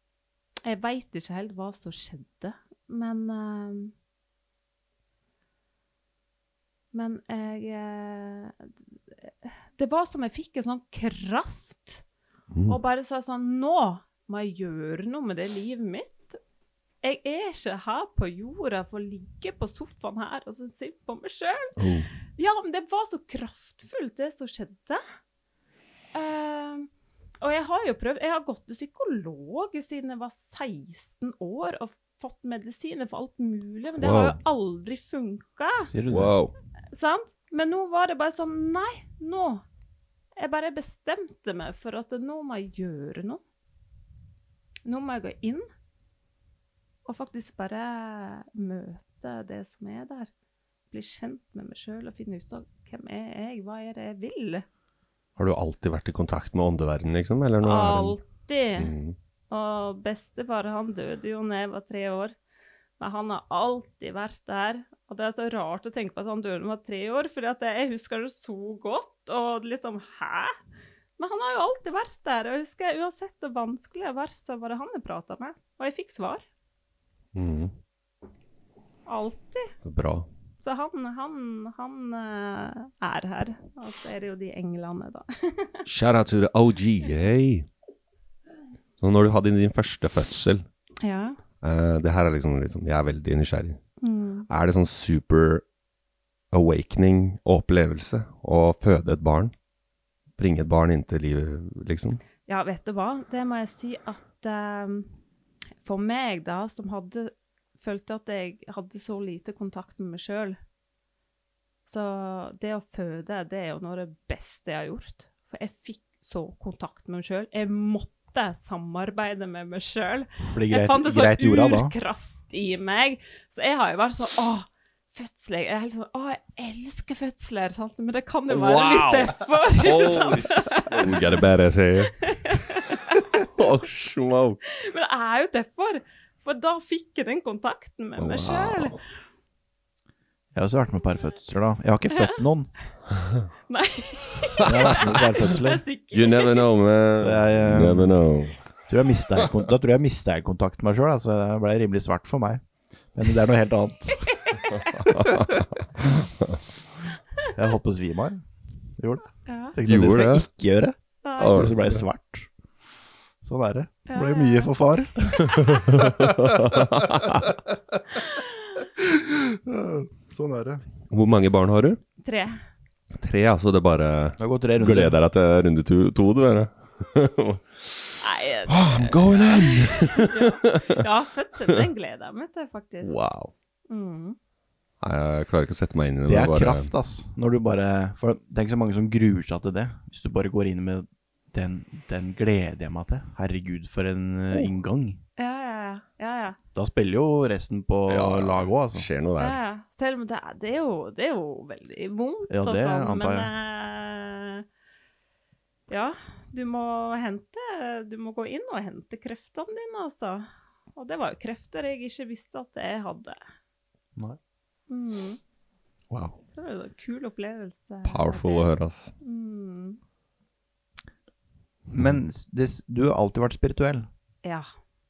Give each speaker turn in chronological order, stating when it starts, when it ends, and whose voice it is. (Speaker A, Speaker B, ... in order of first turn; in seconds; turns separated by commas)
Speaker A: 0.6-3.9, Speaker A: 6.9-12.0, Speaker B: 12.5-12.8, Speaker A: 12.7-16.4, Speaker A: 17.0-21.7, Speaker B: 21.8-22.1, Speaker A: 22.4-25.0, Speaker A: 26.1-26.9, Speaker A: 27.4-35.9, Speaker B: 34.0-34.4, Speaker C: 35.9-36.4, Speaker B: 36.1-36.5, Speaker A: 36.9-39.6, Speaker A: 40.4-43.4, Speaker A: 44.9-45.6, Speaker A: 47.0-50.3, Speaker A: 50.9-54.6, Speaker B: 55.4-58.2, Speaker A: 57.6-58.9, Speaker B: 58.8-59.1, Speaker A: 59.5-62.3, Speaker A: 63.0-70.5, Speaker A: 71.2-76.4, Speaker B: 77.3-77.7, Speaker A: 79.1-79.7, Speaker B: 79.8-80.3, Speaker A: 80.6-85.8, Speaker B: 85.8-87.7, Speaker B: 89.0-90.6, Speaker A: 91.0-91.4, Speaker B: 91.6-93.8, Speaker A: 94.0-94.5, Speaker B: 94.5-95.6, Speaker B: 96.5-99.5, Speaker B: 100.4-102.2, Speaker A: 102.5-105.1, Speaker A: 105.8-110.6, Speaker A: 111.8-131.2, Speaker C: 120.5-121.9, Speaker B: 128.5-132.3, Speaker A: 132.2-133.2, Speaker B: 133.3-134.6, Speaker A: 134.8-139.0, Speaker B: 138.2-139.0, Speaker C: 140.5-142.7, Speaker A: 143.7-146.6, Speaker C: 144.6-145.8, Speaker B: 144.7-145.1, Speaker B: 146.1-148.6, Speaker C: 147.1-148.2, Speaker C: 148.9-152.6, Speaker C: 153.1-154.4, Speaker A: 154.3-155.1, Speaker B: 155.1-155.7, Speaker C: 157.5-158.4, Speaker C: 159.0-162.5, Speaker A: 159.4-159.7, Speaker B: 159.8-160.4, Speaker A: 161.2-161.6, Speaker B: 161.4-162.0, Speaker C: 163.4-166.6, Speaker A: 164.1-164.7, Speaker B: 165.4-167.5, Speaker C: 169.0-170.8, Speaker B: 171.1-172.0, Speaker A: 172.2-172.6, Speaker B: 173.1-178.1, Speaker C: 174.4-175.2, Speaker A: 178.2-183.1, Speaker B: 178.7-180.9, Speaker B: 183.0-183.5, Speaker A: 183.9-184.4, Speaker B: 185.0-186.9, Speaker C: 186.2-195.2, Speaker A: 195.4-196.6, Speaker C: 196.7-199.1, Speaker B: 198.1-199.6, Speaker A: 199.4-204.6, Speaker C: 202.5-203.5, Speaker A: 205.9-213.4, Speaker A: 214.9-215.4, Speaker B: 216.1-216.4, Speaker A: 216.5-218.7, Speaker B: 218.0-219.1, Speaker A: 219.2-220.0, Speaker C: 221.9-224.1